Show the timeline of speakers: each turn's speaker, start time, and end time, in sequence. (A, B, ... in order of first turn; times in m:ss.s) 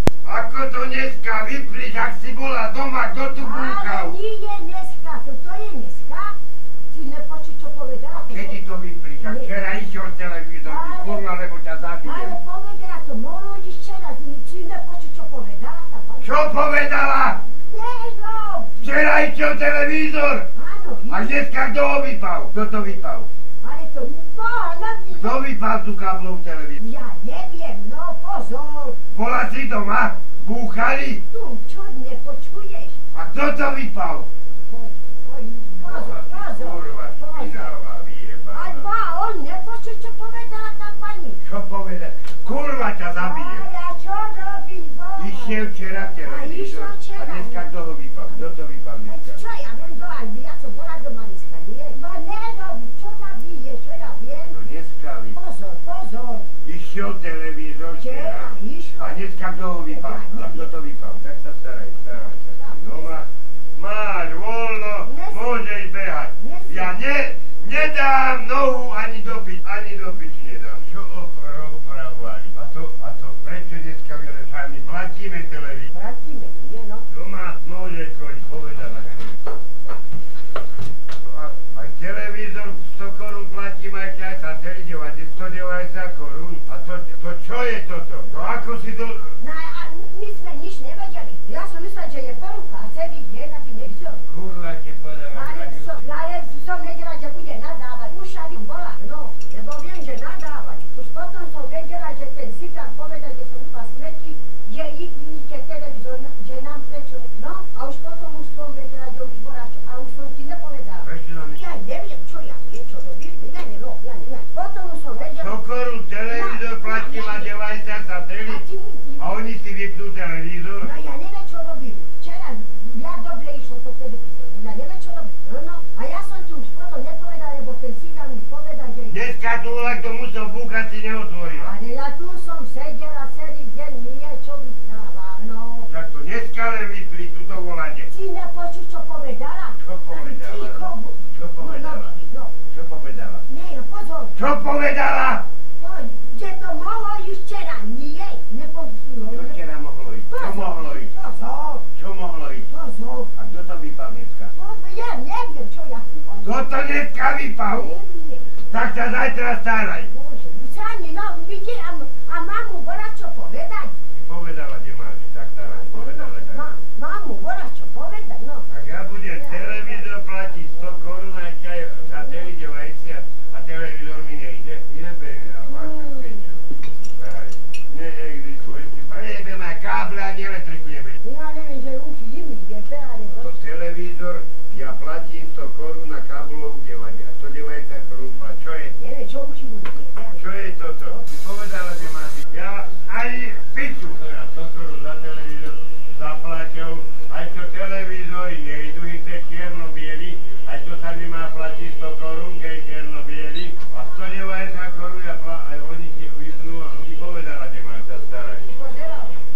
0:00.2-0:04.2 A
0:03.4-0:06.4 B
0:06.9-0:08.6 B
0:08.1-0:12.4 A
0:09.2-0:09.5 B
0:10.6-0:11.2 B
0:12.0-0:16.7 B
0:16.2-0:17.4 A
0:17.5-0:18.9 B
0:18.8-0:20.5 A
0:20.5-0:21.6 B
0:21.1-0:23.3 A
0:23.6-0:25.4 B
0:25.1-0:26.8 A
0:26.8-0:29.0 B
0:29.1-0:31.2 A
0:31.3-0:33.0 B
0:33.1-0:34.3 A
0:34.5-0:37.8 B
0:35.8-0:38.9 A
0:38.5-0:41.4 B
0:41.4-0:43.7 A
0:43.2-0:45.7 B
0:45.2-0:49.4 A
0:46.2-0:47.7 B
0:49.1-0:54.6 B
0:54.5-0:55.4 A
0:55.3-0:56.5 B
0:56.6-1:15.9 A
0:58.0-0:59.2 B
0:59.8-1:00.7 B
1:02.1-1:03.2 B
1:05.0-1:05.7 B
1:06.4-1:07.0 B
1:15.9-1:17.1 B
1:17.1-1:19.4 A
1:21.2-1:29.4 A
1:29.4-1:34.2 B
1:34.2-1:36.0 A
1:35.3-1:55.6 B
1:51.0-1:51.6 A
1:55.2-1:58.6 A
1:56.3-1:57.6 B
1:58.5-1:59.3 B
1:59.2-2:00.9 A
2:00.8-2:09.2 B
2:09.1-2:11.7 A
2:11.5-2:15.9 B
2:15.9-2:18.1 A
2:18.1-2:22.5 B
2:19.8-2:22.2 A
2:22.7-2:23.5 A
2:23.5-2:24.4 B
2:24.4-2:25.5 A
2:25.8-2:29.6 B
2:29.3-2:31.1 A
2:30.3-2:31.9 B
2:31.9-2:32.7 A
2:32.7-2:33.3 B
2:33.3-2:34.5 A
2:34.5-2:36.7 B
2:36.4-2:37.9 A
2:37.6-2:38.6 B
2:38.7-2:40.1 A
2:40.1-2:43.9 B
2:44.1-2:46.7 A
2:45.6-2:48.7 B
2:48.7-2:56.6 A
2:49.3-2:51.0 B
2:52.1-2:52.5 B
2:55.7-2:56.6 B
2:57.2-3:01.2 A
3:01.2-3:03.6 B
3:03.4-3:09.0 A
3:09.0-3:11.3 B
3:10.4-3:28.6 A
3:28.5-3:29.4 B